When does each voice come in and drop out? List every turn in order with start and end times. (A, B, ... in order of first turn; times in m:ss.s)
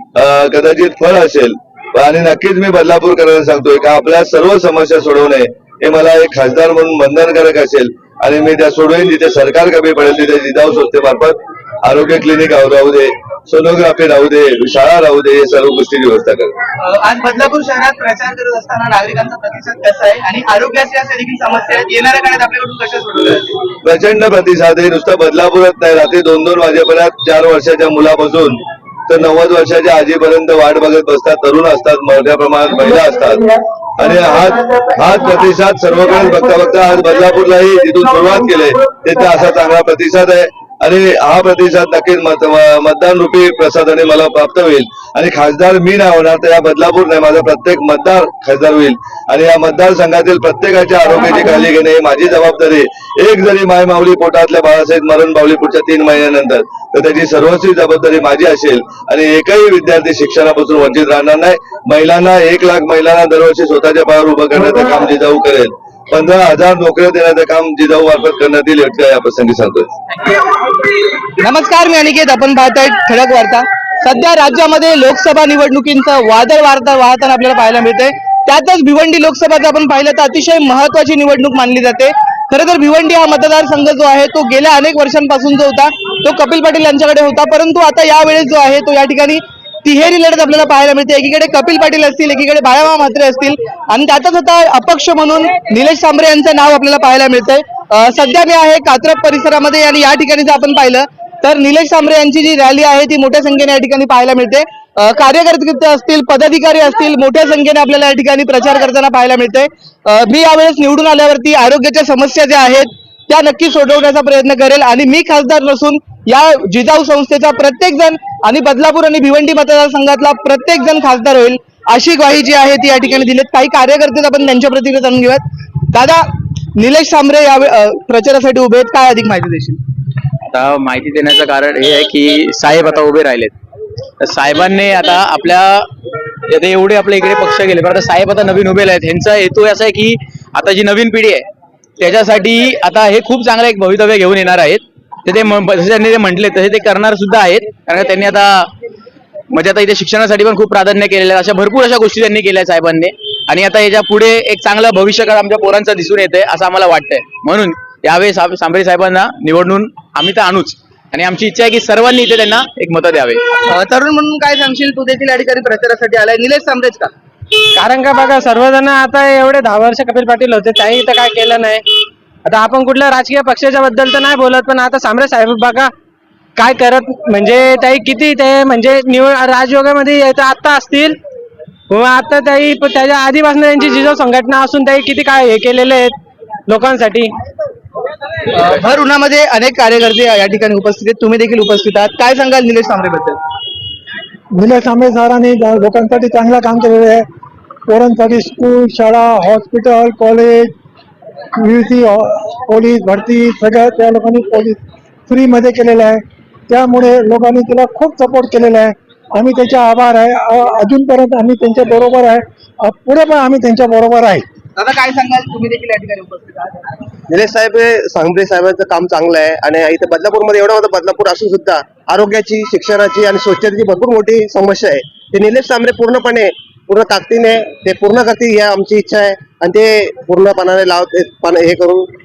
0:00.2-0:16.5 A
0:16.8-0:23.6 B
0:23.8-1:09.9 A
1:11.4-2:06.2 B
2:06.8-2:09.8 B
2:10.5-2:13.5 C
2:14.2-2:15.9 C
2:16.5-2:21.4 C
2:22.0-2:28.7 C
2:29.5-2:43.4 C
2:43.6-2:47.1 B
2:47.7-2:51.8 D
2:52.4-2:55.9 D
2:56.6-3:01.2 D
3:01.9-3:06.1 D
3:06.7-3:07.3 D
3:08.5-3:13.4 B
3:14.5-3:17.2 E
3:17.9-3:20.7 E
3:21.6-3:34.4 E
3:34.8-3:36.9 B
3:37.3-3:52.1 F